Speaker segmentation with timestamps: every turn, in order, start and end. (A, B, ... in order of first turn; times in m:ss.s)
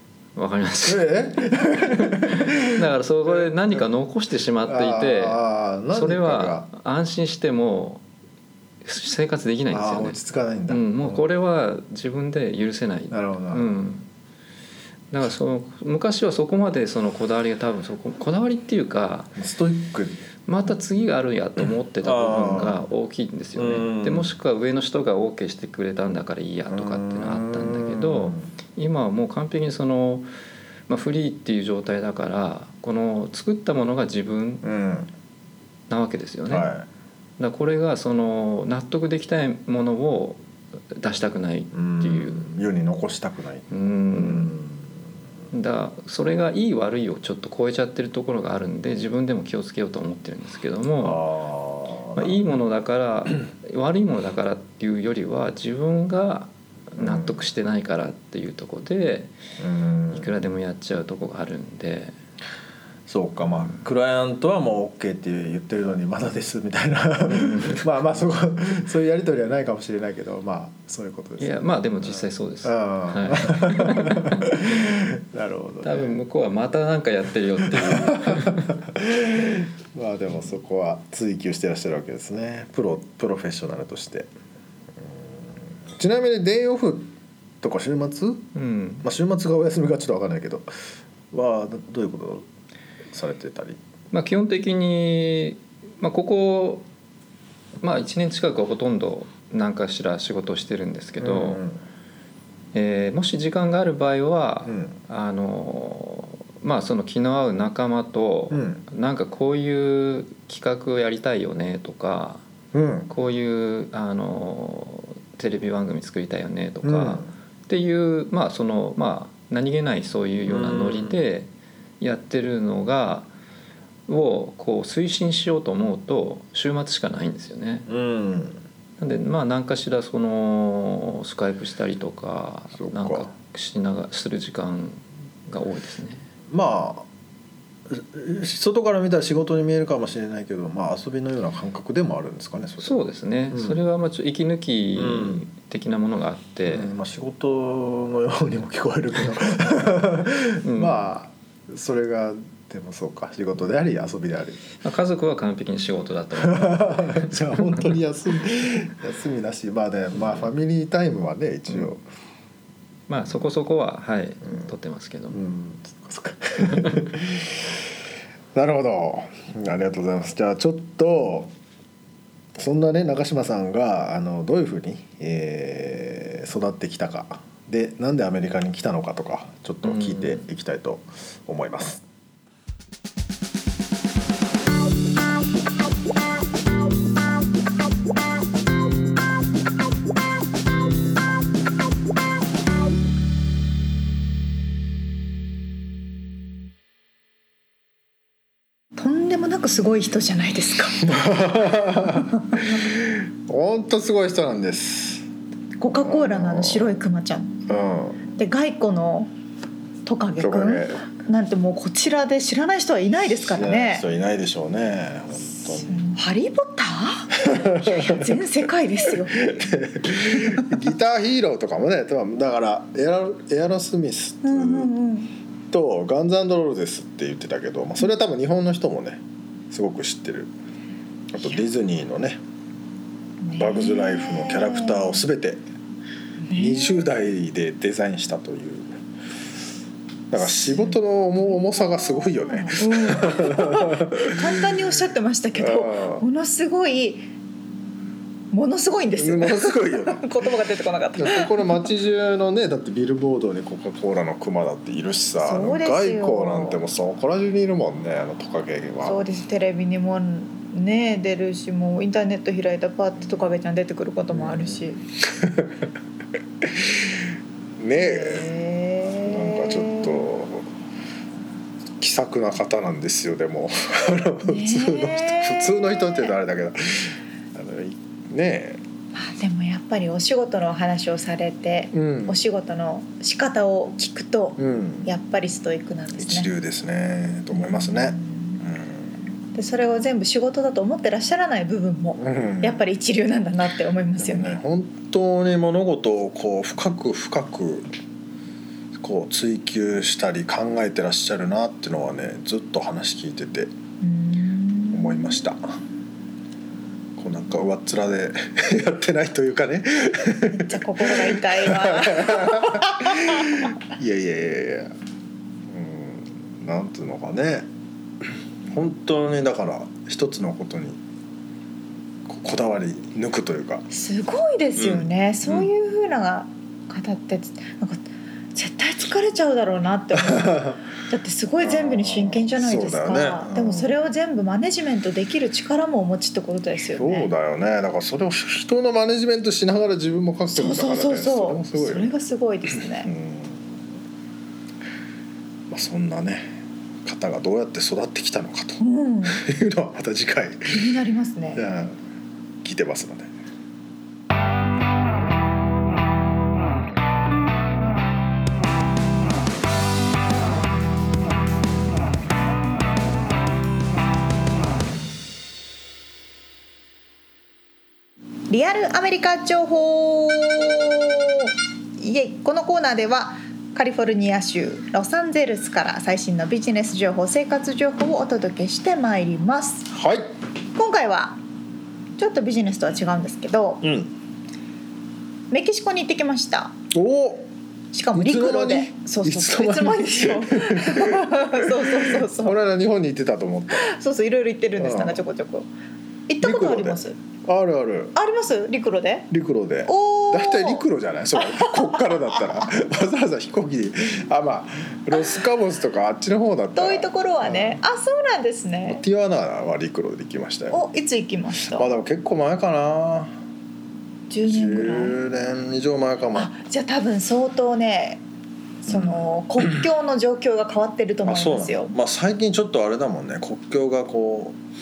0:00.4-0:08.0 A
0:00.8-0:03.9 B
0:04.6-0:06.7 B
0:08.8-0:14.1 A
0:09.7-0:11.2 B
0:13.1-0:13.7 B
0:15.1-0:19.4 A
0:19.4-0:20.2 B
0:20.5-0:30.3 A
0:22.0-0:22.8 B
0:23.6-0:24.3 B
0:26.7-0:28.5 B
0:30.9-0:34.6 A
0:34.6-0:35.1 B
0:35.9-0:36.7 A
0:36.5-0:36.9 B
0:37.4-0:40.4 A
0:40.9-0:42.5 A
0:41.7-0:44.9 B
0:43.7-0:44.6 A
0:45.5-0:51.2 A
0:51.0-0:52.4 B
0:52.2-0:59.3 A
0:57.0-0:57.4 B
0:59.6-1:00.3 B
1:00.1-1:02.2 A
1:03.1-1:16.2 B
1:07.3-1:07.8 A
1:11.4-1:15.0 A
1:15.8-1:18.8 A
1:17.6-1:24.3 B
1:25.0-1:28.5 B
1:28.6-1:29.0 A
1:29.0-1:30.7 B
1:31.3-1:32.5 B
1:33.1-1:33.8 B
1:34.1-1:36.8 A
1:37.8-1:41.6 A
1:41.2-1:41.8 B
1:42.7-1:52.4 A
1:44.7-1:44.9 B
1:48.5-1:48.8 B
1:52.7-1:53.1 B
1:53.1-2:01.5 A
1:56.8-1:57.3 B
2:00.5-2:01.2 B
2:02.0-2:03.3 A
2:04.1-2:07.9 A
2:07.9-2:08.6 B
2:09.0-2:16.3 A
2:12.8-2:13.3 B
2:16.5-2:17.1 B
2:17.9-2:23.8 B
2:22.8-2:26.9 A
2:25.0-2:25.4 B
2:26.7-2:34.6 B
2:30.6-2:31.0 A
2:34.8-2:38.0 A
2:36.4-2:42.0 B
2:40.2-2:40.5 A
2:43.1-2:45.4 A
2:45.3-2:47.8 B
2:46.7-2:47.1 A
2:48.5-2:51.5 B
2:52.6-3:02.0 B
2:59.8-3:00.4 A
3:19.0-3:21.0 C
3:21.0-3:25.3 B
3:22.3-3:22.6 C
3:25.8-3:27.6 C
3:25.9-3:27.0 B
3:27.7-3:28.2 B
3:28.4-3:29.3 C
3:30.1-3:34.0 C
3:30.4-3:31.0 B
3:33.4-3:36.1 B
3:35.8-3:39.6 C
3:37.4-3:38.4 B
3:39.0-3:44.9 B
3:40.4-3:40.7 C
3:44.4-3:45.3 C
3:45.7-3:50.5 B
3:51.3-3:52.4 B
3:53.4-3:55.2 C
3:53.6-3:55.6 B
3:56.4-3:57.1 C
3:56.6-3:59.0 B
4:00.3-4:04.7 B
4:00.4-4:01.0 C
4:02.1-4:07.3 C
4:05.6-4:06.3 B
4:08.5-4:11.9 C
4:09.2-4:10.3 B
4:11.2-4:19.2 B
4:15.4-4:16.8 C
4:19.0-4:25.0 C
4:24.3-4:25.9 B
4:26.6-4:28.5 B
4:28.0-4:30.3 C
4:29.1-4:30.7 B
4:32.0-4:38.8 B
4:34.4-4:36.3 C
4:39.1-4:46.5 C
4:41.9-4:42.4 B
4:44.6-4:45.1 B
4:46.2-4:49.1 B
4:47.5-4:48.6 C
4:49.6-4:54.6 C
4:52.2-4:52.8 B
4:54.2-4:57.9 B
4:59.0-5:03.7 B
5:04.0-5:05.5 C
5:04.9-5:05.8 B
5:07.2-5:15.0 B
5:10.5-5:13.7 C
5:15.7-5:17.7 B
5:18.2-5:21.0 B
5:22.3-5:23.9 B
5:23.9-5:28.0 C
5:24.8-5:25.7 B
5:28.6-5:37.3 C
5:30.2-5:30.8 B
5:31.6-5:33.9 B
5:37.0-5:42.1 B
5:40.5-5:43.1 C
5:43.0-5:43.7 B
5:45.7-5:51.0 B
5:48.8-5:49.4 C
5:50.7-5:51.6 C
5:51.6-5:52.0 B
5:52.6-5:53.3 B
6:08.5-6:19.9 C
6:19.9-6:20.3 B
6:20.8-6:21.4 C
6:22.2-6:23.9 C
6:23.8-6:24.1 B
6:25.5-6:26.8 C
6:26.9-6:27.5 B
6:27.9-6:32.6 C
6:28.1-6:33.9 B
6:33.7-6:35.7 C
6:34.8-6:35.2 B
6:36.3-6:37.2 C
6:36.4-6:38.2 B
6:38.2-6:39.3 C
6:39.3-6:47.8 B
6:39.9-6:40.8 C
6:41.4-6:42.1 C
6:46.8-6:49.0 C
6:48.9-6:50.8 B
6:50.7-6:51.9 C
6:51.7-6:53.3 B
6:54.3-6:55.2 C
6:54.5-6:56.5 B
6:56.3-6:58.2 C
6:58.8-7:02.0 C
6:58.9-6:59.8 B
7:01.2-7:04.6 B